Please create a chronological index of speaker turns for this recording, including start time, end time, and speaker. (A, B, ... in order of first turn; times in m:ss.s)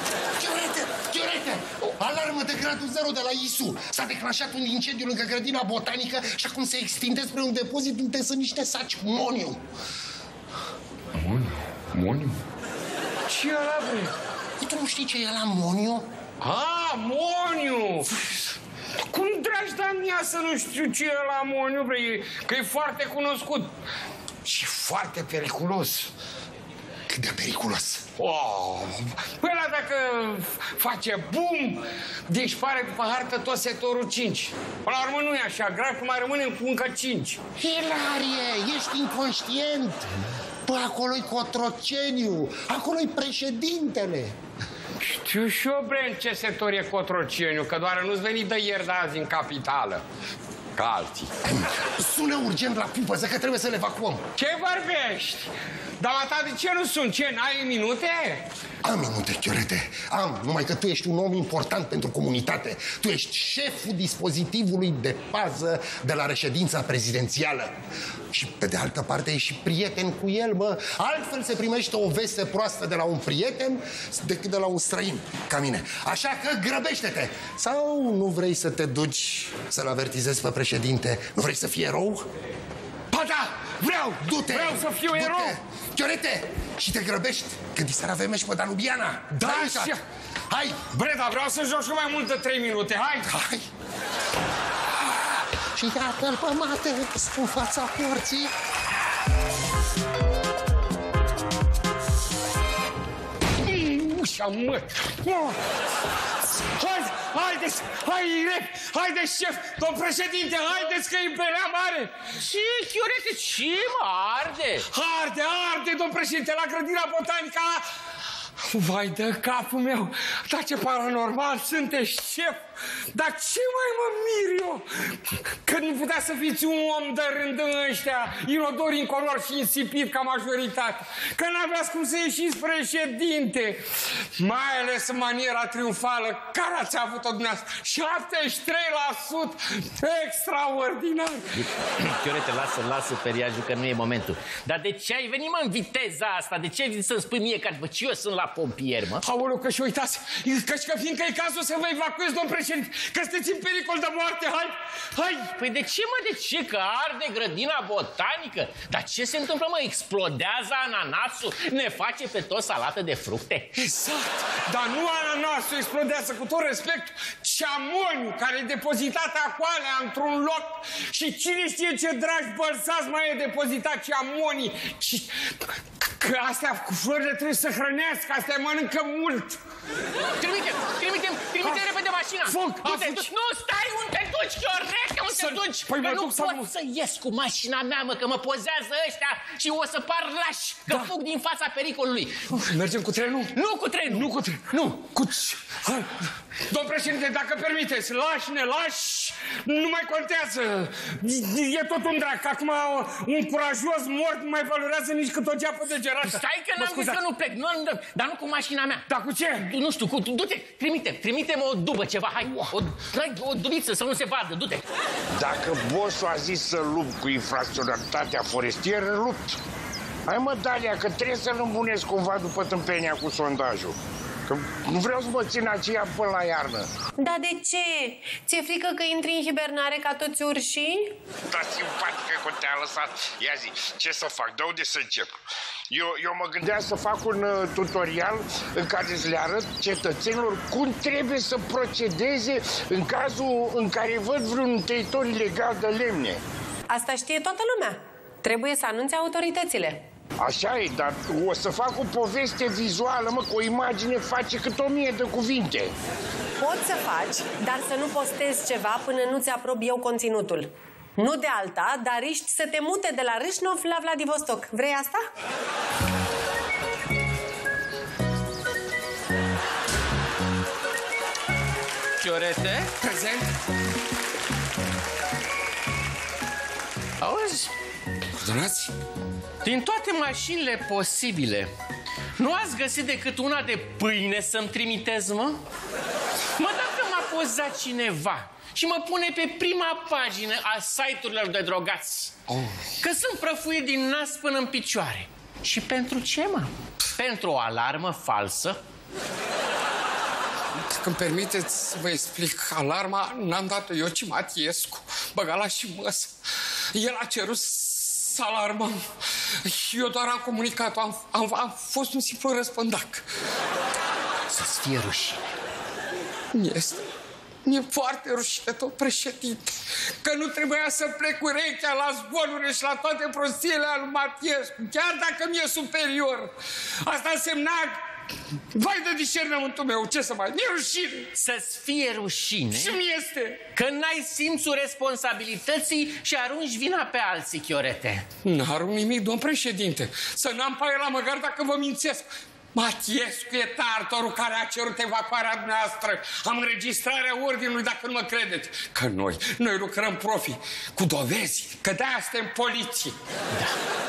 0:00.4-0:09.6 A
0:11.1-0:12.4 B
0:13.3-0:14.1 B
0:14.6-0:16.0 A
0:16.4-0:18.2 B
0:19.1-0:23.7 B
0:24.4-0:26.1 B
0:27.1-0:28.0 A
0:28.2-0:37.4 B
0:37.6-0:40.1 A
0:40.6-0:44.3 A
0:45.0-0:50.0 B
0:50.8-0:51.3 B
0:51.5-0:54.2 A
0:54.4-0:58.4 B
0:58.8-1:07.7 A
1:08.3-1:22.2 A
1:23.1-1:25.6 B
1:24.2-1:30.0 A
1:29.3-1:30.0 B
1:30.5-1:30.8 A
1:30.9-1:33.3 B
1:33.2-1:33.6 A
1:35.6-1:38.5 A
1:43.6-1:45.6 B
1:46.7-1:52.2 B
1:52.4-1:54.8 C
1:54.8-1:57.8 B
1:58.6-2:02.6 B
2:03.1-2:21.4 B
2:21.6-2:29.2 C
2:29.2-2:35.5 B
2:35.6-2:43.7 C
2:43.7-2:59.6 B
3:00.4-3:12.8 C
3:01.6-3:01.9 B
3:02.4-3:03.2 B
3:05.4-3:06.7 B
3:12.7-3:13.6 B
3:13.5-3:15.0 C
3:14.1-3:16.1 B
3:16.6-3:27.2 B
3:26.2-3:34.8 C
3:29.1-3:29.7 B
3:35.3-3:39.6 D
3:40.3-3:46.9 D
3:47.2-3:51.1 E
3:51.5-3:55.3 D
3:55.9-4:06.4 D
4:06.9-4:10.0 E
4:10.4-4:15.9 D
4:16.6-4:25.2 E
4:32.2-4:32.9 C
4:33.0-4:33.5 B
4:37.2-4:37.7 C
4:38.3-4:38.9 B
4:39.6-4:41.7 C
4:42.4-4:45.6 C
4:46.6-4:52.3 C
4:52.5-4:52.8 B
4:53.0-4:58.8 C
5:00.8-5:06.3 B
5:06.9-5:09.0 B
5:09.6-5:13.2 B
5:14.5-5:15.4 C
5:16.5-5:17.0 B
5:17.6-5:28.0 B
5:28.7-5:31.3 B
5:31.3-5:33.0 C
5:32.7-5:33.6 B
5:33.7-5:38.2 C
5:38.4-5:53.2 B